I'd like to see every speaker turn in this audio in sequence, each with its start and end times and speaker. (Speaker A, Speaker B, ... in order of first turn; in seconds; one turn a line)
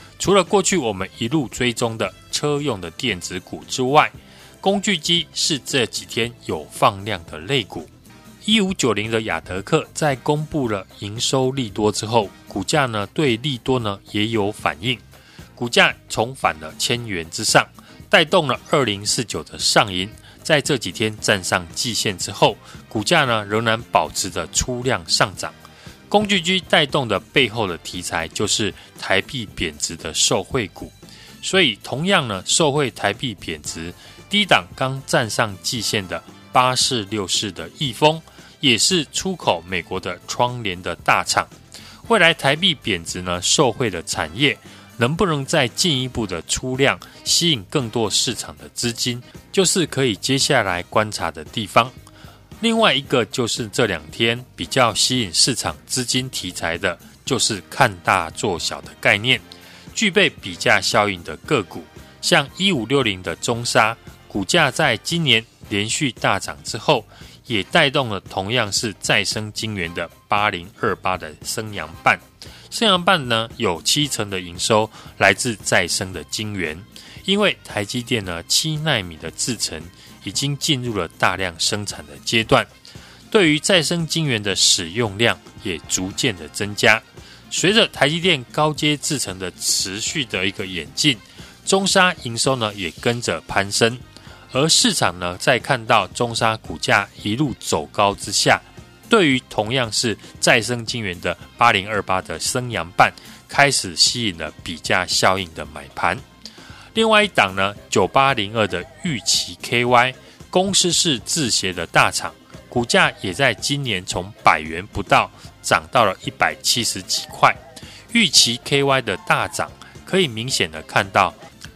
Speaker A: 0.2-7.9
Speaker A: 8.4-15.0
Speaker A: 15.6-25.5
Speaker A: 26.1-41.5
Speaker A: 42.1-51.9
Speaker A: 52.6-59.4
Speaker A: 59.9-82.7
Speaker A: 83.3-94.0
Speaker A: 94.5-106.2
Speaker A: 106.9-117.6
Speaker A: 118.1-121.4